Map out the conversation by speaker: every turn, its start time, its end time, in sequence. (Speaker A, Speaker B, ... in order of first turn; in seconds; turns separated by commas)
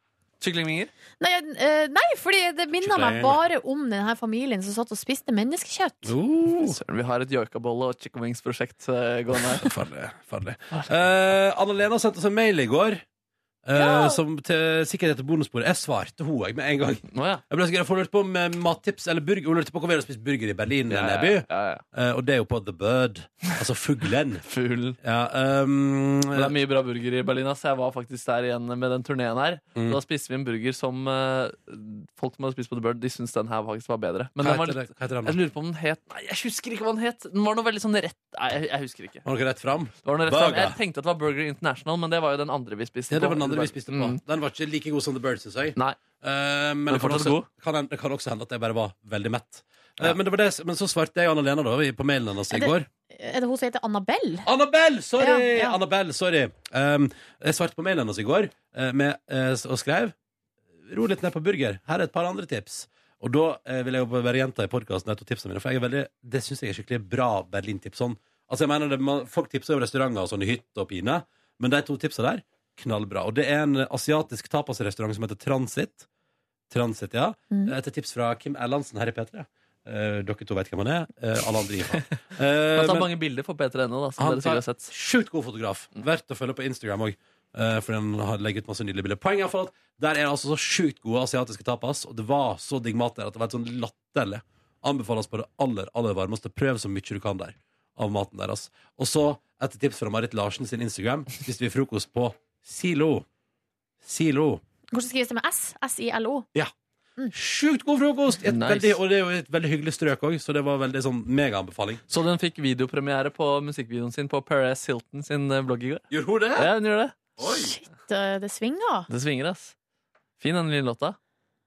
Speaker A: 0.4-0.9, Speaker B: 1.2-6.1, Speaker C: 2.8-3.4, Speaker C: 6.0-6.8, Speaker A: 6.6-9.7, Speaker C: 9.5-13.0, Speaker C: 13.6-24.4, Speaker B: 13.8-14.2, Speaker A: 17.1-17.4, Speaker A: 20.9-21.8, Speaker A: 24.4-25.0, Speaker C: 25.0-26.6, Speaker A: 26.3-39.2, Speaker C: 34.4-35.4, Speaker C: 39.2-40.8, Speaker A: 40.0-44.2, Speaker C: 43.1-52.9, Speaker A: 46.9-47.5, Speaker B: 52.5-54.5, Speaker C: 54.4-60.1, Speaker B: 55.2-55.8, Speaker C: 60.8-76.1, Speaker C: 76.7-83.1, Speaker A: 82.7-84.9, Speaker C: 84.2-103.3, Speaker C: 104.0-104.6, Speaker B: 104.9-106.5, Speaker C: 107.3-112.0, Speaker A: 108.5-109.0, Speaker A: 112.1-117.2, Speaker C: 116.1-116.7, Speaker C: 117.4-117.7, Speaker B: 117.4-119.1, Speaker A: 119.1-119.7, Speaker A: 120.4-121.2